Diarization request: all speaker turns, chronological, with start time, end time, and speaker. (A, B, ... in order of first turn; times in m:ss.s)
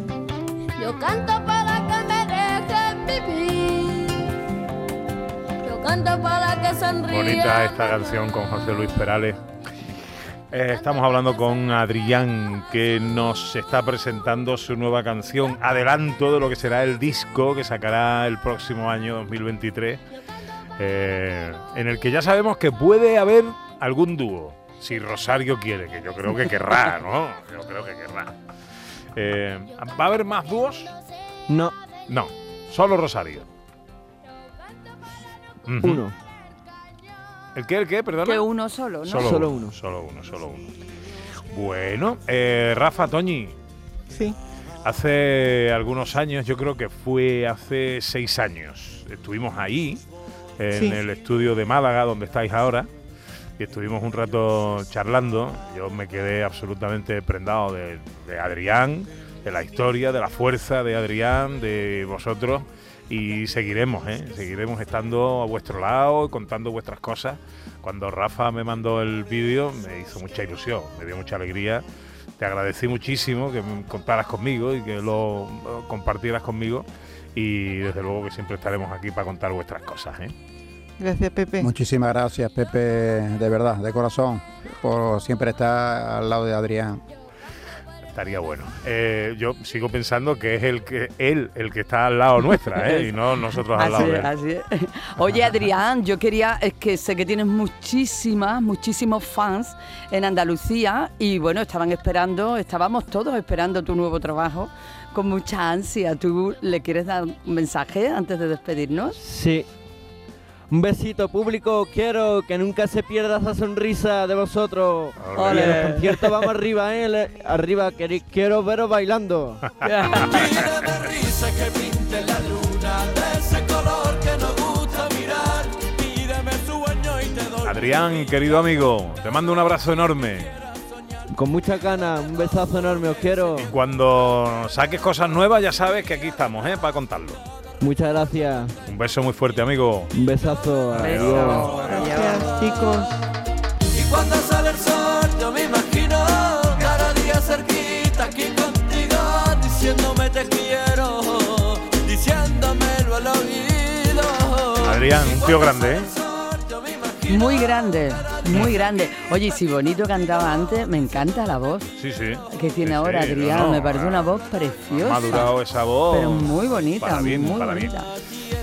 0:00.8-0:04.3 A
0:05.6-0:08.0 A
0:06.3-0:07.0 B
0:07.0-0:09.4 C
0:10.5-0:20.0 C
0:20.8-0:28.3 C
0:29.2-0:31.0 C
0:31.5-0:31.8 D
0:32.1-0:33.5 C
0:35.7-0:36.0 C
0:35.8-0:36.2 D
0:37.6-0:38.5 C
0:38.2-0:39.3 E
0:39.0-0:40.7 C
0:39.2-0:39.8 D
0:41.5-0:43.6 C
0:44.1-0:44.4 F
0:44.8-0:50.0 C
0:50.6-0:52.9 C
0:50.7-0:51.0 F
0:53.6-1:11.8 C
1:12.4-1:20.3 C
1:21.0-1:21.7 F
1:21.6-1:27.0 G
1:28.1-1:34.3 C
1:32.7-1:49.2 E
1:49.2-1:49.7 D
1:50.7-1:59.6 D
1:55.2-1:55.9 C
1:55.4-1:56.4 E
1:59.8-2:00.7 E
2:00.1-2:07.8 B
2:07.6-2:10.7 C
2:11.3-2:13.7 D
2:13.6-2:17.4 C
2:17.8-2:18.8 D
2:18.9-2:20.1 C
2:20.1-2:21.9 D
2:20.9-2:22.0 C
2:20.9-2:22.7 E
2:22.0-2:23.2 F
2:23.9-2:37.4 B
2:34.8-2:36.2 C
2:37.3-2:41.9 E
2:38.5-2:38.8 C
2:42.0-2:48.0 C
2:42.5-2:45.5 E
2:46.1-2:48.1 E